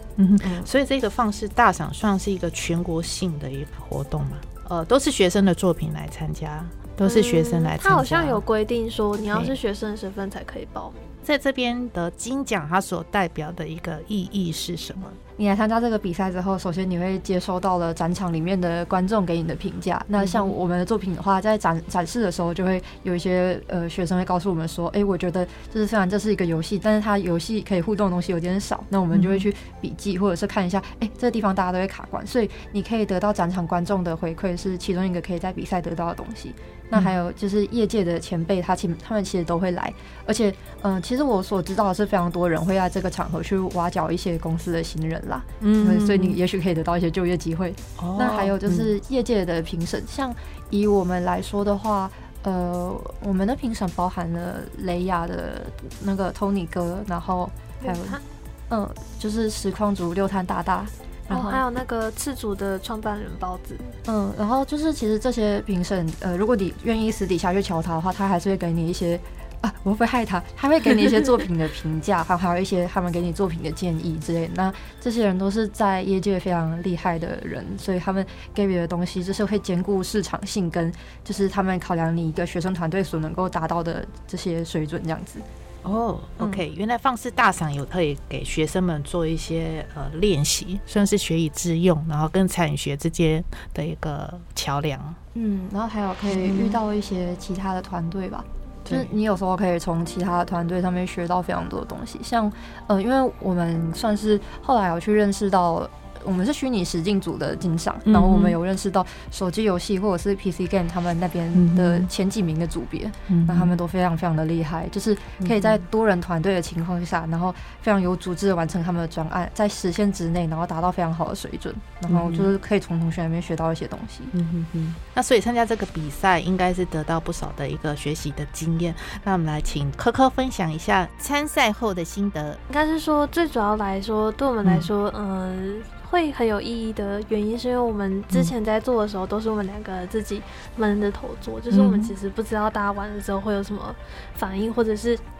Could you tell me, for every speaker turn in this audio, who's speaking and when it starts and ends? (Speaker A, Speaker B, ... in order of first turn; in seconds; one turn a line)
Speaker A: 0.2-8.4
Speaker B: 7.0-11.1
Speaker A: 11.2-15.2
Speaker C: 15.4-58.2
Speaker A: 20.2-20.5
Speaker A: 29.1-29.4
Speaker A: 45.6-46.4
Speaker A: 48.0-48.9
Speaker B: 57.8-58.2
Speaker C: 58.7-61.6
Speaker B: 61.3-64.0
Speaker C: 64.0-85.4
Speaker A: 85.8-95.2
Speaker C: 95.3-124.3
Speaker A: 96.3-96.8
Speaker A: 98.8-99.1
Speaker A: 108.0-108.6
Speaker A: 111.5-112.1
Speaker A: 113.3-113.7
Speaker A: 115.4-115.8
Speaker A: 122.1-122.5
Speaker A: 124.3-132.6
Speaker B: 132.7-145.2
Speaker A: 141.7-142.1